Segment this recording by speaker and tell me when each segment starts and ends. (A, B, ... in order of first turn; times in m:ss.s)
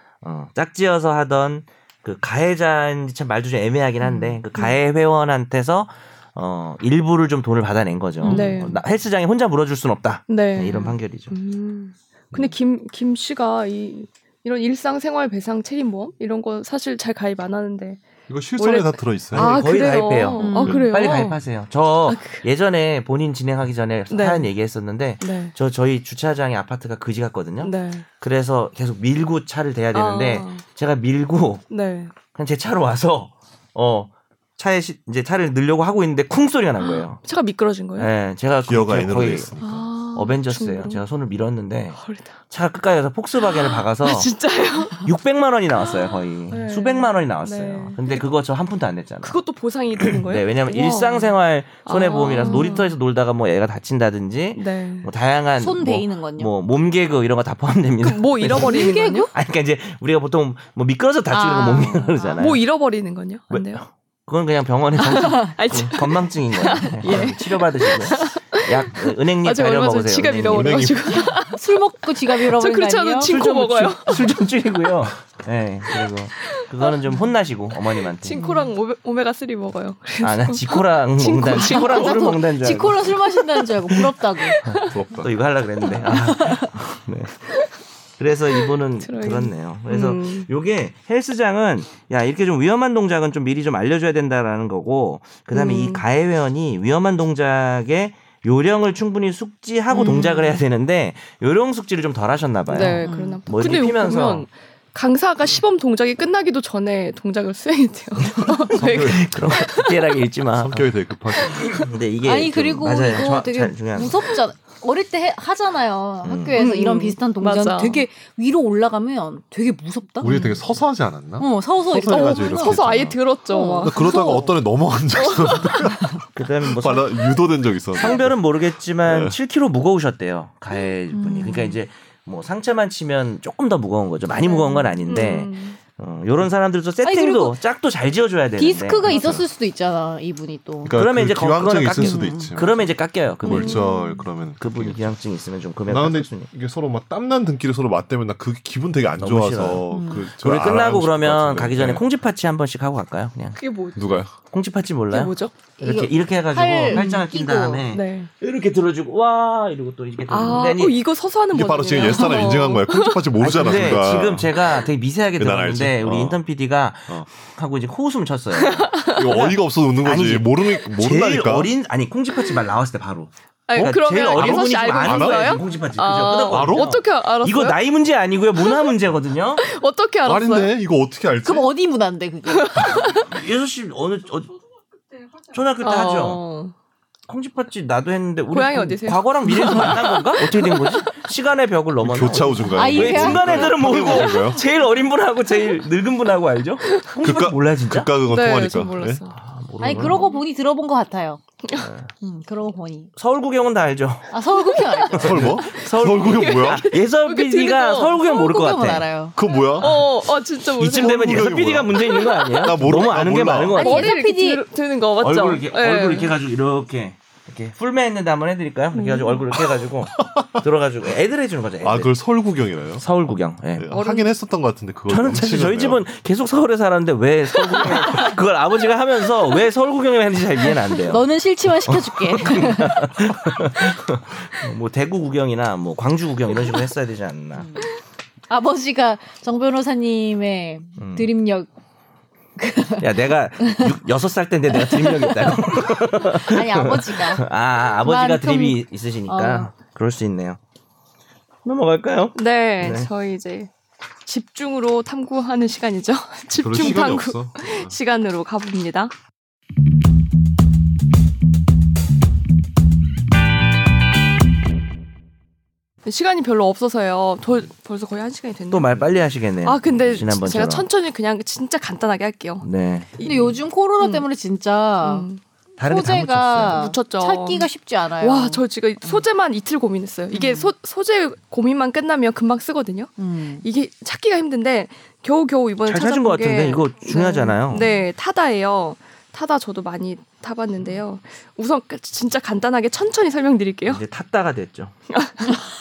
0:00.2-0:11.3 A
0:04.0-0:04.4 B
0:08.2-0:08.8 B
0:08.2-0:08.8 C
0:10.3-0:18.0 C
0:18.3-0:19.6 D
0:18.6-0:21.4 C
0:19.3-0:31.7 A
0:20.4-0:20.9 B
0:22.0-0:22.4 C
0:24.1-0:24.5 C
0:25.2-0:25.5 C
0:27.6-0:28.1 C
0:29.9-0:30.6 C
0:31.7-0:32.1 C
0:32.3-0:37.2 A
0:36.8-0:38.1 C
0:38.0-0:39.5 A
0:38.6-0:39.9 D
0:39.6-0:41.0 C
0:40.1-0:44.3 A
0:42.0-0:42.4 C
0:43.4-0:45.1 C
0:45.0-0:49.4 A
0:45.8-0:48.3 C
0:49.2-0:52.9 C
0:50.0-1:02.6 A
0:52.4-0:52.8 B
0:54.5-0:55.1 C
0:55.6-0:56.5 B
0:58.0-0:59.3 C
0:58.5-0:59.3 B
1:01.3-1:02.3 B
1:01.4-1:03.8 C
1:03.5-1:11.0 A
1:05.0-1:14.4 C
1:10.4-1:11.1 D
1:11.1-1:13.3 B
1:13.2-1:18.5 A
1:16.4-1:22.4 C
1:18.4-1:18.7 B
1:20.2-1:23.2 A
1:21.6-1:24.6 B
1:24.4-1:25.0 C
1:24.6-1:27.4 A
1:24.9-1:25.3 D
1:25.8-1:26.2 C
1:26.2-1:26.6 B
1:28.2-1:44.5 A
1:29.0-1:30.5 C
1:35.5-1:36.0 C
1:39.9-1:40.6 C
1:42.7-1:50.2 C
1:43.0-1:43.4 B
1:48.2-1:50.9 A
1:48.8-1:49.1 D
1:50.6-1:51.7 D
1:51.4-1:54.4 A
1:51.4-1:51.8 C
1:52.2-2:00.4 B
1:56.2-1:56.6 A
1:56.5-1:58.0 C
2:00.2-2:03.2 D
2:00.2-2:00.6 C
2:01.4-2:02.8 B
2:02.1-2:04.5 C
2:03.5-2:04.4 B
2:03.8-2:06.1 D
2:05.1-2:06.0 C
2:06.3-2:07.3 A
2:06.7-2:08.4 D
2:07.9-2:19.2 A
2:09.0-2:09.4 D
2:11.1-2:11.8 B
2:14.4-2:15.8 C
2:17.0-2:17.6 B
2:18.6-2:21.0 B
2:19.0-2:19.4 D
2:20.8-2:25.2 D
2:20.9-2:23.9 A
2:22.0-2:22.6 B
2:23.4-2:24.3 C
2:24.6-2:26.5 A
2:25.8-2:32.0 D
2:29.2-2:33.6 A
2:29.9-2:30.2 B
2:33.6-2:34.2 C
2:34.0-2:34.3 D
2:34.5-2:41.0 A
2:35.1-2:35.6 C
2:35.8-2:37.8 B
2:36.9-2:37.2 C
2:37.9-2:38.3 C
2:40.3-2:43.9 C
2:41.5-2:44.8 D
2:43.4-2:59.6 A
2:45.4-2:46.4 D
2:48.5-2:49.5 C
2:49.1-2:51.7 D
2:52.3-2:52.6 C
2:53.7-2:57.8 C
2:54.3-2:55.6 D
2:56.5-2:56.9 D
2:58.5-2:59.0 C
2:59.6-3:00.7 C
3:00.2-3:01.7 D
3:01.4-3:02.8 B
3:02.5-3:03.3 C
3:03.1-3:04.5 A
3:05.5-3:06.4 A
3:05.8-3:06.7 C
3:07.3-3:18.1 A
3:08.5-3:11.1 C
3:12.0-3:14.6 D
3:12.7-3:13.6 B
3:13.5-3:14.8 C
3:15.5-3:15.8 C
3:17.2-3:19.2 D
3:18.2-3:19.4 C
3:19.3-3:20.4 A
3:19.8-3:21.4 B
3:21.7-3:22.1 A
3:22.2-3:23.1 B
3:23.2-3:24.3 A
3:24.3-3:25.4 B
3:25.1-3:29.0 A
3:25.2-3:26.8 D
3:25.6-3:28.2 C
3:28.2-3:29.4 B
3:29.3-3:30.1 D
3:29.7-3:32.8 C
3:30.7-3:34.1 A
3:31.0-3:33.8 D
3:33.8-3:36.3 C
3:33.8-3:34.6 B
3:35.2-3:42.1 A
3:38.9-3:39.4 C
3:39.7-3:40.6 D
3:41.8-3:43.0 D
3:43.0-3:43.9 A
3:43.7-3:46.0 D
3:43.9-3:44.3 C
3:45.1-3:51.3 A
3:51.0-3:53.0 B
3:51.9-3:57.9 A
3:57.5-3:57.9 B
3:58.5-4:01.7 B
4:01.0-4:01.3 A
4:02.6-4:03.9 B
4:03.0-4:10.6 A
4:04.7-4:07.4 B
4:08.0-4:09.7 B
4:11.6-4:13.1 A
4:12.3-4:13.7 C
4:14.2-4:19.1 C
4:16.6-4:18.0 D
4:26.0-4:34.2 C
4:28.7-4:30.8 A
4:32.6-4:33.1 A
4:33.2-4:35.3 B
4:35.0-4:35.4 C
4:35.8-4:36.8 A
4:35.8-4:39.2 B
4:36.7-4:54.0 C
4:40.3-4:40.7 B
4:43.2-4:43.6 B
4:45.8-4:47.9 A
4:47.7-4:48.0 B
4:53.9-4:54.9 A
4:55.1-4:55.5 C